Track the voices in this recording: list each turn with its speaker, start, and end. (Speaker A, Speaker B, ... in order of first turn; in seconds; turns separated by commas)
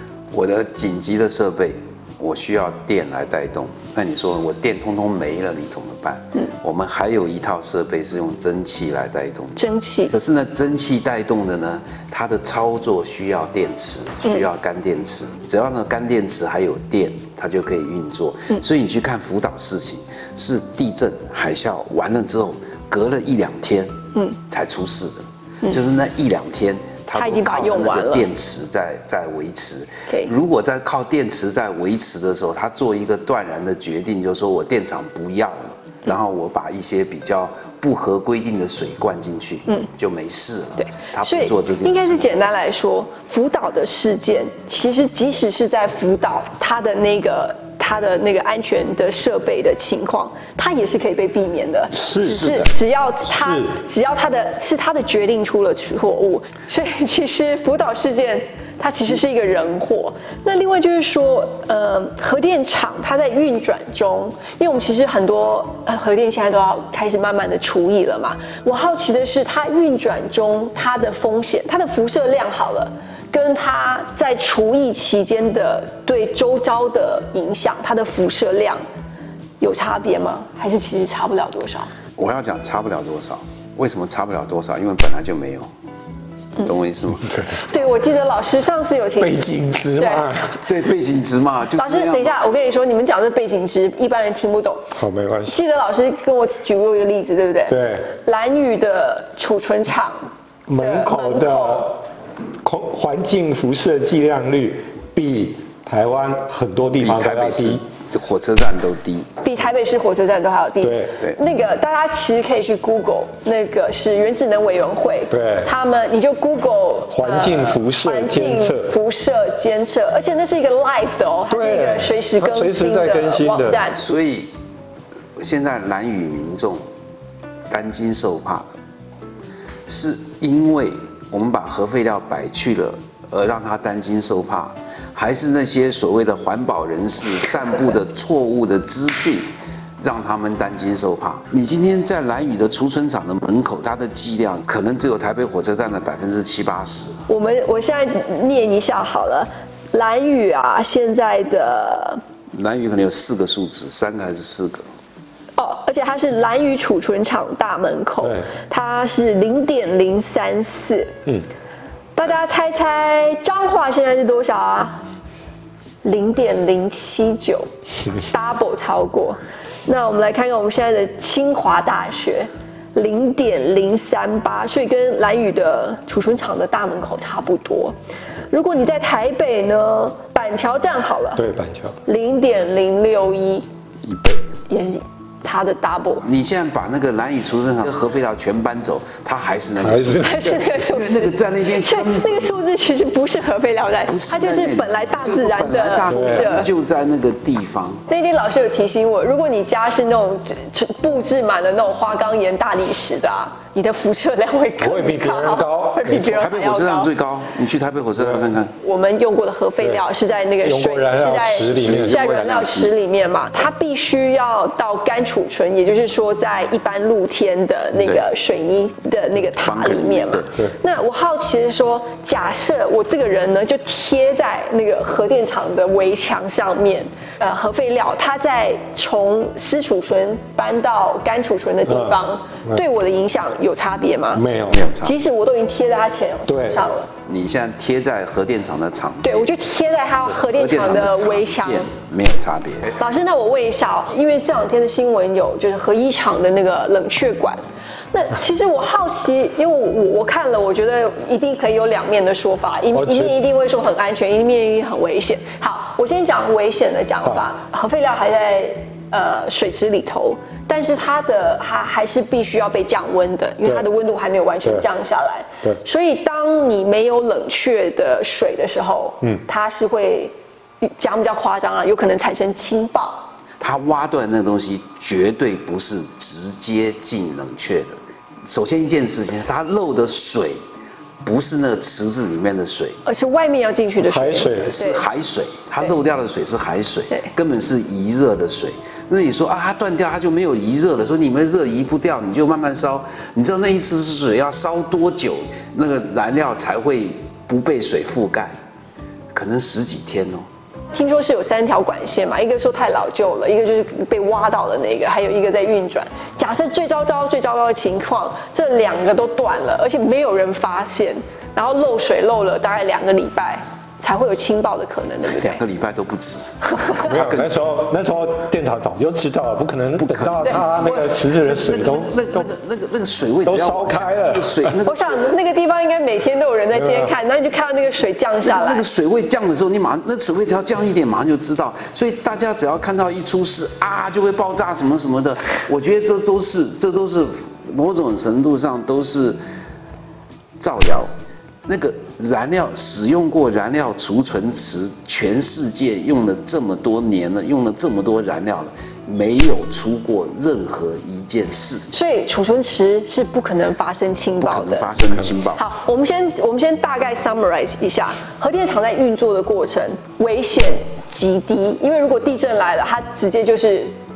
Speaker A: 0.3-23.9, Speaker B: 9.6-10.1, Speaker A: 24.5-42.3, Speaker B: 27.1-28.3, Speaker B: 41.2-78.8, Speaker C: 51.9-52.7, Speaker C: 53.3-53.7, Speaker B: 79.6-81.9, Speaker A: 82.2-85.7, Speaker A: 86.6-87.7, Speaker B: 87.7-90.3, Speaker C: 89.2-90.6, Speaker A: 90.7-92.4, Speaker B: 91.8-94.8, Speaker C: 95.0-95.6, Speaker B: 95.5-100.3, Speaker C: 97.7-98.1, Speaker C: 100.7-102.0, Speaker B: 100.8-102.0, Speaker C: 102.6-107.8, Speaker A: 107.0-109.3, Speaker B: 109.4-124.0, Speaker C: 110.8-111.2, Speaker C: 115.3-115.7, Speaker C: 117.1-118.9, Speaker C: 121.5-123.8, Speaker A: 124.0-124.5, Speaker A: 125.4-126.8, Speaker A: 127.7-128.7, Speaker A: 129.9-139.5, Speaker A: 140.0-147.2, Speaker B: 147.3-152.2, Speaker A: 152.5-154.8, Speaker B: 155.6-161.2, Speaker B: 162.2-164.9, Speaker B: 166.0-177.9, Speaker B: 178.5-181.4, Speaker C: 181.4-182.0, Speaker B: 182.1-183.7, Speaker A: 184.1-184.4, Speaker B: 184.7-186.3, Speaker A: 186.2-192.5, Speaker C: 189.8-190.6, Speaker B: 190.2-196.7, Speaker A: 194.1-198.0, Speaker C: 196.1-196.5, Speaker B: 198.1-207.1, Speaker C: 204.8-206.4, Speaker A: 206.2-208.7, Speaker B: 208.8-234.5, Speaker C: 210.6-212.2, Speaker A: 211.6-212.9, Speaker A: 218.0-218.2, Speaker A: 219.6-220.6, Speaker C: 231.9-232.8, Speaker C: 234.3-234.8, Speaker A: 234.7-235.2, Speaker B: 235.0-237.1, Speaker C: 236.5-236.8, Speaker A: 237.3-239.5, Speaker B: 239.2-241.9, Speaker A: 240.3-243.0, Speaker B: 243.0-247.6, Speaker B: 248.1-273.2, Speaker C: 252.9-253.4, Speaker A: 273.6-280.6, Speaker A: 281.2-283.0, Speaker B: 283.1-285.0, Speaker C: 284.0-284.8, Speaker A: 284.6-298.5, Speaker A: 299.3-300.5, Speaker B: 300.9-315.6, Speaker A: 315.3-317.6, Speaker C: 317.0-322.5, Speaker A: 320.0-325.4, Speaker B: 320.5-321.0, Speaker C: 323.4-324.8, Speaker B: 324.9-328.9, Speaker C: 326.7-327.1, Speaker A: 328.4-339.4, Speaker A: 340.6-341.1, Speaker A: 341.7-351.9, Speaker B: 351.9-354.9, Speaker A: 354.4-355.6, Speaker C: 355.0-355.3, Speaker B: 355.5-363.9